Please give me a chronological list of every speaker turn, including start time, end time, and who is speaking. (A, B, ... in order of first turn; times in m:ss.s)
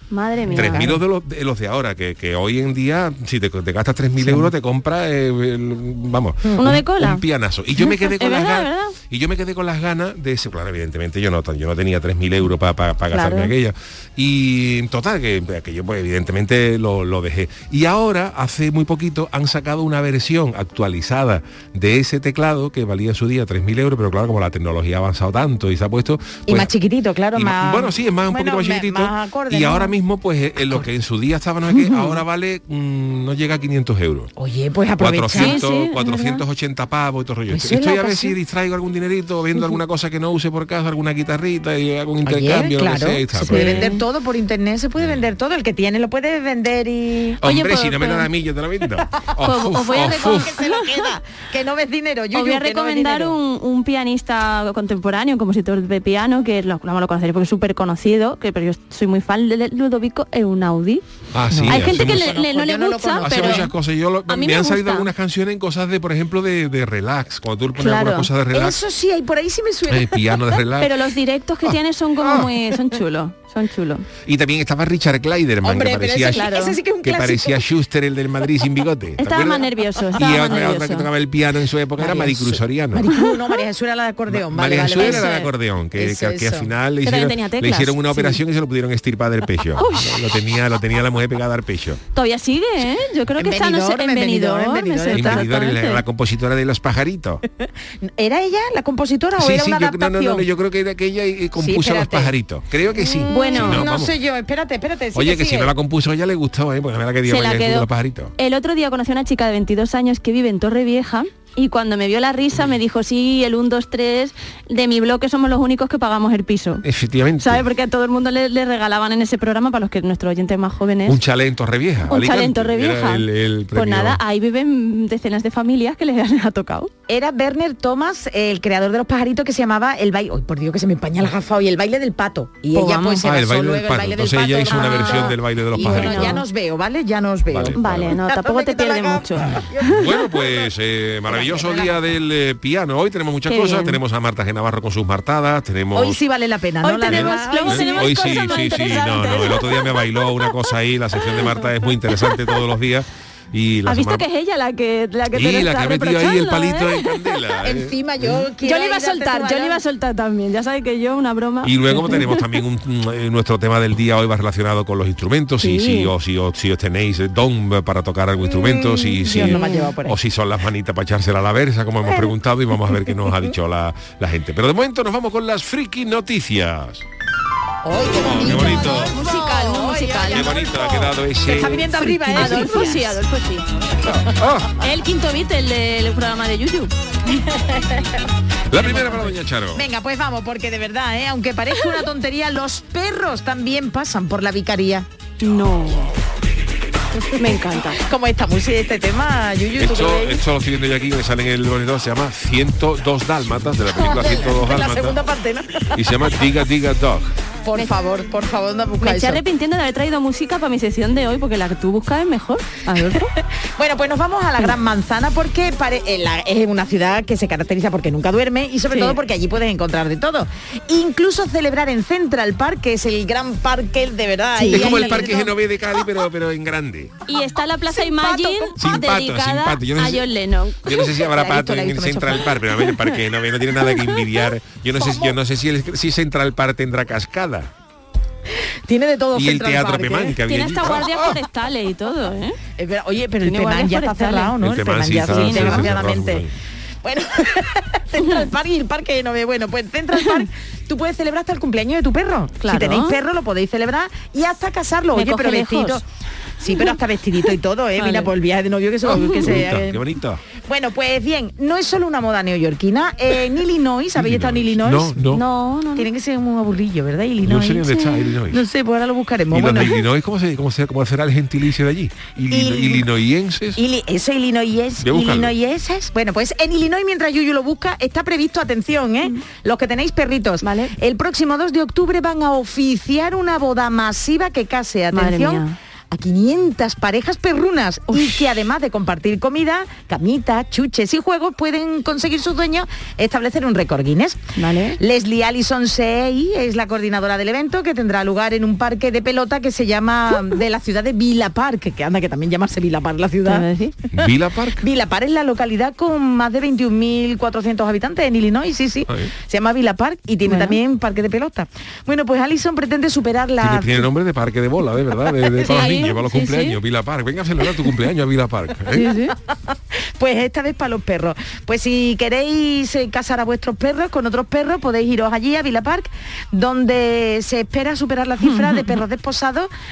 0:00.1-0:00.9 A
0:00.4-0:01.0 B
0:00.5-0:26.7 C
0:04.2-0:04.5 B
0:06.6-0:07.2 A
0:07.8-0:09.0 A
0:13.1-0:13.5 A
0:26.5-0:29.9 B
0:27.3-0:34.3 C
0:31.8-0:32.1 B
0:34.4-0:35.6 B
0:35.0-0:43.9 C
0:35.3-0:36.4 A
0:37.5-0:38.3 B
0:42.2-0:47.4 B
0:43.5-0:44.0 A
0:45.0-0:45.3 C
0:47.4-0:50.5 C
0:47.4-0:48.3 A
0:49.4-0:51.0 A
0:49.9-0:53.4 B
0:52.3-1:03.7 A
1:01.3-1:02.4 C
1:01.6-1:03.7 B
1:03.2-1:08.8 C
1:04.3-1:05.1 A
1:07.8-1:08.3 A
1:08.5-1:10.6 B
1:09.9-1:11.0 C
1:10.8-1:14.0 A
1:11.6-1:12.5 C
1:14.2-1:23.1 C
1:15.6-1:17.6 B
1:16.3-1:16.8 A
1:19.2-1:21.1 A
1:22.0-1:25.3 B
1:23.1-1:23.3 A
1:24.3-1:32.0 C
1:24.9-1:25.5 A
1:25.9-1:26.7 B
1:27.0-1:28.4 A
1:29.8-1:30.3 A
1:32.1-1:36.0 A
1:33.4-1:35.4 B
1:35.1-1:37.4 C
1:37.6-1:40.4 B
1:39.4-1:44.1 C
1:41.6-1:42.3 B
1:42.9-1:45.7 B
1:43.3-1:43.8 A
1:45.1-1:48.3 C
1:47.2-1:56.8 A
1:56.8-1:57.6 C
1:57.4-2:01.2 A
2:01.0-2:04.2 C
2:02.1-2:06.9 A
2:07.1-2:20.7 B
2:12.7-2:13.3 A
2:13.2-2:16.4 C
2:14.7-2:16.4 A
2:17.5-2:18.2 C
2:17.7-2:20.0 A
2:19.8-2:26.2 C
2:21.3-2:22.0 B
2:23.5-2:24.0 A
2:25.9-2:28.7 B
2:26.8-2:30.5 A
2:27.1-2:34.2 C
2:31.3-2:31.6 A
2:32.1-2:32.6 A
2:33.8-2:37.2 A
2:35.3-2:38.5 C
2:37.6-2:39.8 B
2:38.6-2:42.5 A
2:41.6-2:57.0 C
2:45.6-2:46.1 A
2:48.5-2:50.2 B
2:49.2-2:49.9 A
2:57.8-3:03.2 B
2:58.1-2:59.2 C
2:58.4-3:00.5 A
3:00.3-3:02.7 C
3:02.0-3:03.9 A
3:04.0-3:04.7 C
3:04.8-3:06.9 A
3:07.3-3:08.2 B
3:08.7-3:09.8 C
3:08.8-3:15.1 B
3:15.4-3:16.1 A
3:17.2-3:20.4 B
3:17.4-3:18.0 A
3:19.8-3:25.2 C
3:23.9-3:26.0 B
3:25.9-3:27.3 C
3:27.6-3:29.4 B
3:29.0-3:33.3 A
3:33.0-3:45.5 B
3:38.9-3:39.2 A
3:44.6-3:45.4 A
3:44.6-3:47.1 C
3:47.3-3:51.0 A
3:47.9-3:48.8 B
3:48.8-3:50.2 C
3:50.8-3:57.7 C
3:51.1-3:52.6 B
3:54.9-3:55.3 B
3:58.9-4:00.4 B
3:59.3-4:01.4 C
4:00.4-4:02.6 A
4:02.8-4:06.4 B
4:03.4-4:04.6 A
4:04.6-4:06.5 C
4:05.2-4:05.9 A
4:07.0-4:16.0 B
4:12.6-4:13.2 A
4:15.1-4:16.0 A
4:16.6-4:20.0 B
4:16.7-4:18.3 A
4:19.0-4:20.4 C
4:19.1-4:19.5 A
4:20.6-4:25.3 B
4:24.2-4:25.4 C
4:25.3-4:26.1 A
4:26.0-4:30.0 B
4:27.4-4:28.6 C
4:29.5-4:33.8 C
4:32.5-4:33.1 B
4:33.8-4:54.4 B
4:35.0-4:35.5 C
4:40.6-4:40.9 A
4:45.1-4:45.8 A
4:48.1-4:48.4 A
4:54.6-4:55.0 A
4:55.0-5:04.3 B
5:03.4-5:03.9 A
5:04.1-5:04.8 C
5:04.8-5:14.1 B
5:10.4-5:10.8 A
5:13.6-5:19.0 C
5:15.6-5:16.8 A
5:18.9-5:19.3 A
5:19.0-5:29.7 B
5:28.4-5:29.0 A